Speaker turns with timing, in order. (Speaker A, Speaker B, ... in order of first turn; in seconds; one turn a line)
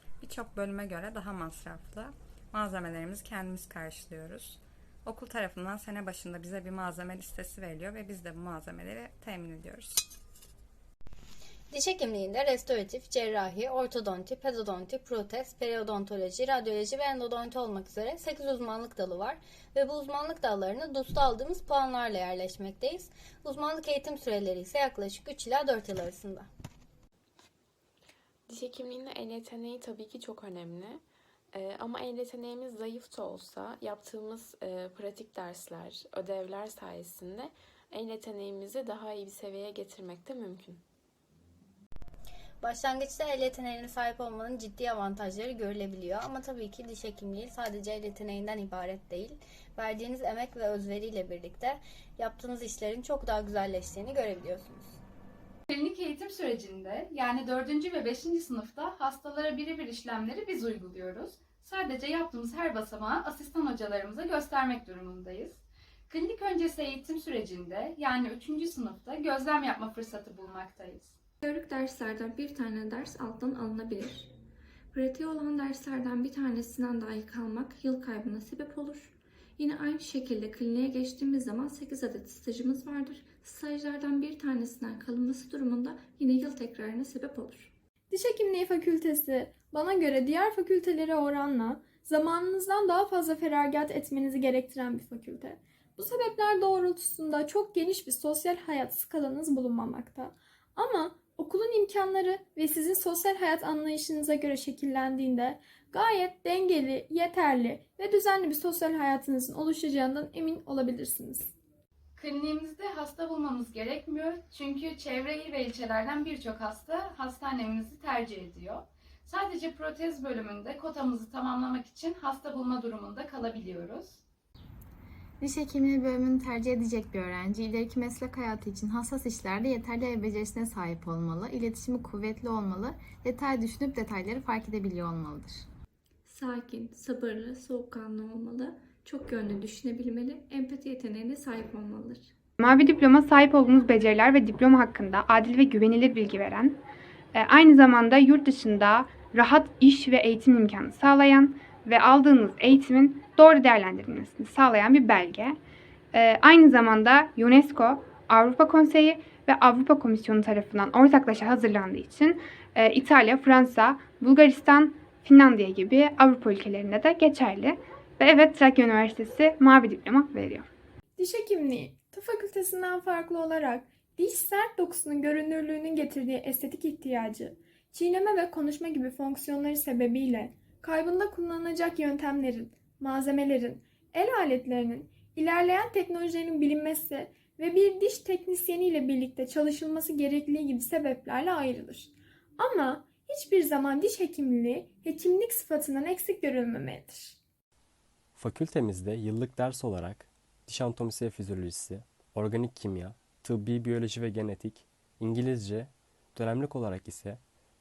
Speaker A: 0.2-10.0
Speaker B: 11.7-26.5
Speaker C: 28.5-31.0
Speaker C: 31.5-40.8
Speaker B: 42.6-55.0
Speaker D: 55.7-71.2
Speaker E: 71.4-74.3
Speaker E: 74.9-87.7
Speaker F: 88.1-111.5
Speaker D: 112.2-124.2
Speaker G: 125.4-135.7
Speaker E: 136.3-142.3
Speaker H: 142.6-146.8
Speaker H: 147.3-155.6
Speaker H: 156.1-170.7
Speaker F: 171.2-197.4
Speaker I: 198.3-207.4